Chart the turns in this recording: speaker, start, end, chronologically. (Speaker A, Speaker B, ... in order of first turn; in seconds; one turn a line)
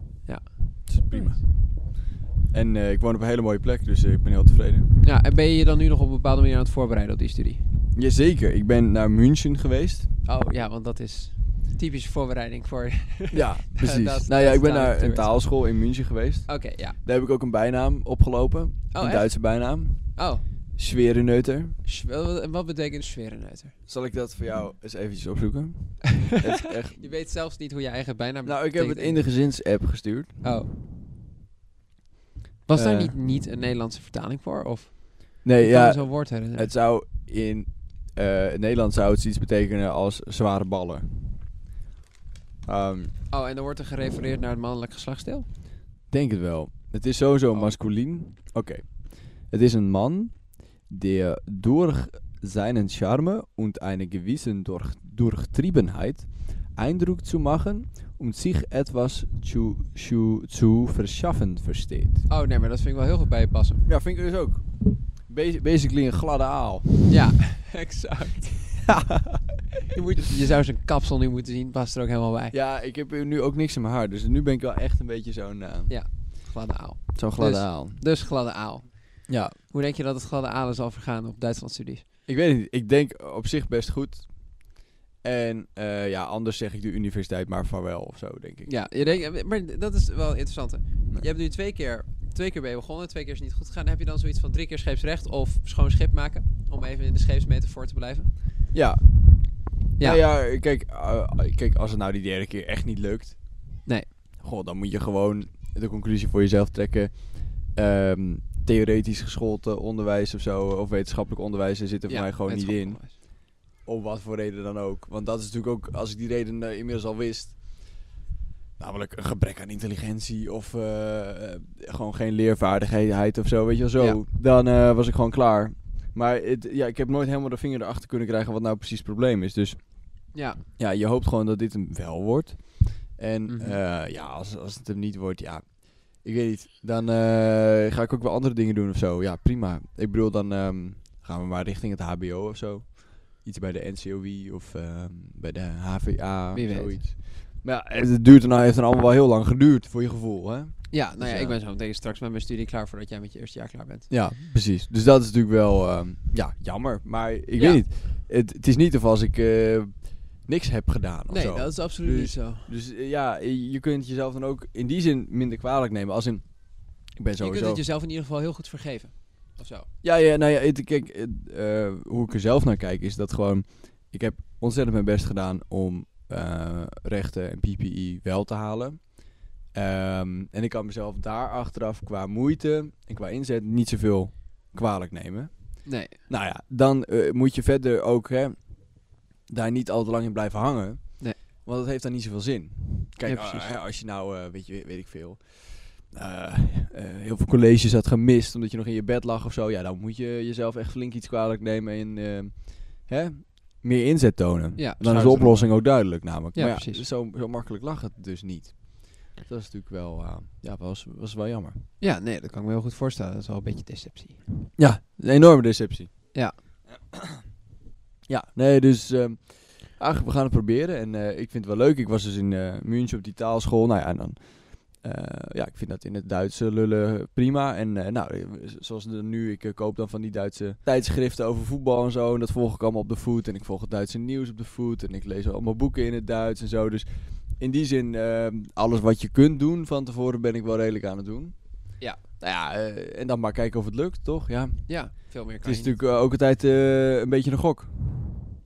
Speaker A: 0.2-1.4
Speaker B: 0.8-4.9
Speaker A: 5.0-7.6
Speaker B: 7.9-10.1
Speaker A: 10.2-15.5
Speaker B: 13.3-20.2
Speaker A: 16.5-17.0
Speaker A: 18.9-20.4
Speaker B: 20.8-21.8
Speaker A: 21.9-23.8
Speaker B: 23.9-27.1
Speaker A: 26.9-29.2
Speaker B: 28.4-30.4
Speaker A: 30.4-30.7
Speaker A: 32.7-36.7
Speaker B: 32.7-33.2
Speaker B: 35.4-41.4
Speaker B: 42.7-43.1
Speaker A: 43.3-45.5
Speaker B: 46.1-62.3
Speaker A: 62.3-63.9
Speaker B: 63.9-67.2
Speaker A: 67.1-69.1
Speaker B: 68.9-69.5
Speaker A: 69.9-72.5
Speaker B: 72.5-76.2
Speaker A: 75.9-82.0
Speaker B: 77.2-78.0
Speaker B: 79.3-79.6
Speaker B: 82.3-89.3
Speaker A: 88.7-98.3
Speaker B: 98.7-103.8
Speaker A: 103.9-104.1
Speaker B: 104.4-118.1
Speaker A: 112.1-113.1
Speaker B: 118.8-151.6
Speaker A: 130.3-130.6
Speaker A: 133.5-133.8
Speaker A: 146.5-147.0
Speaker A: 150.9-154.1
Speaker B: 154.1-167.8
Speaker A: 157.6-157.8
Speaker A: 161.3-162.7
Speaker A: 167.4-169.9
Speaker B: 170.0-211.8
Speaker A: 185.8-186.2
Speaker A: 193.2-193.7
Speaker A: 204.8-207.0
Speaker A: 212.0-214.4
Speaker B: 214.8-216.4
Speaker B: 217.1-217.4
Speaker B: 218.3-248.4
Speaker A: 244.9-246.0